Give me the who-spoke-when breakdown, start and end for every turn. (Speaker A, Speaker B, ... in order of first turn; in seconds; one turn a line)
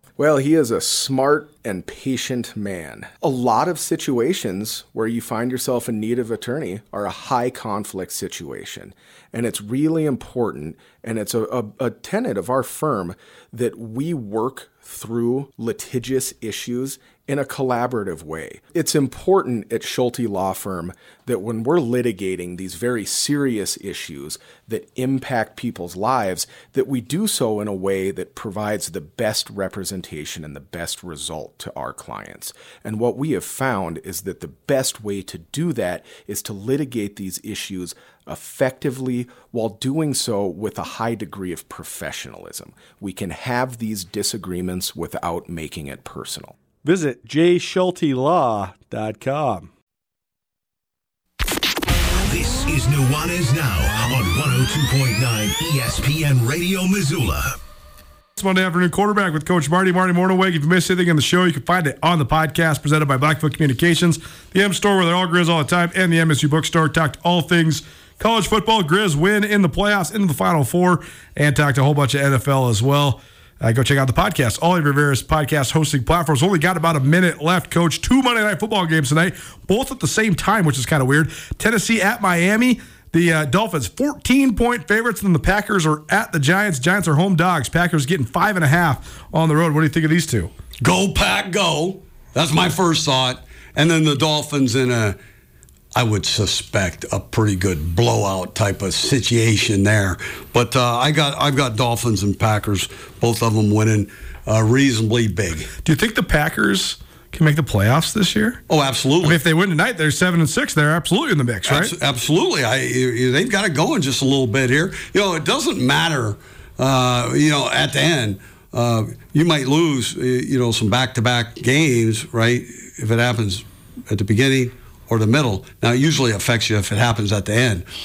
Speaker A: 0.2-46.5
Speaker B: 46.8-49.7
Speaker C: 52.2-57.6
Speaker B: 58.4-90.5
Speaker D: 90.8-95.2
Speaker D: 96.0-105.7
Speaker B: 105.8-108.6
Speaker D: 108.7-109.4
Speaker B: 109.2-111.9
Speaker D: 111.7-127.9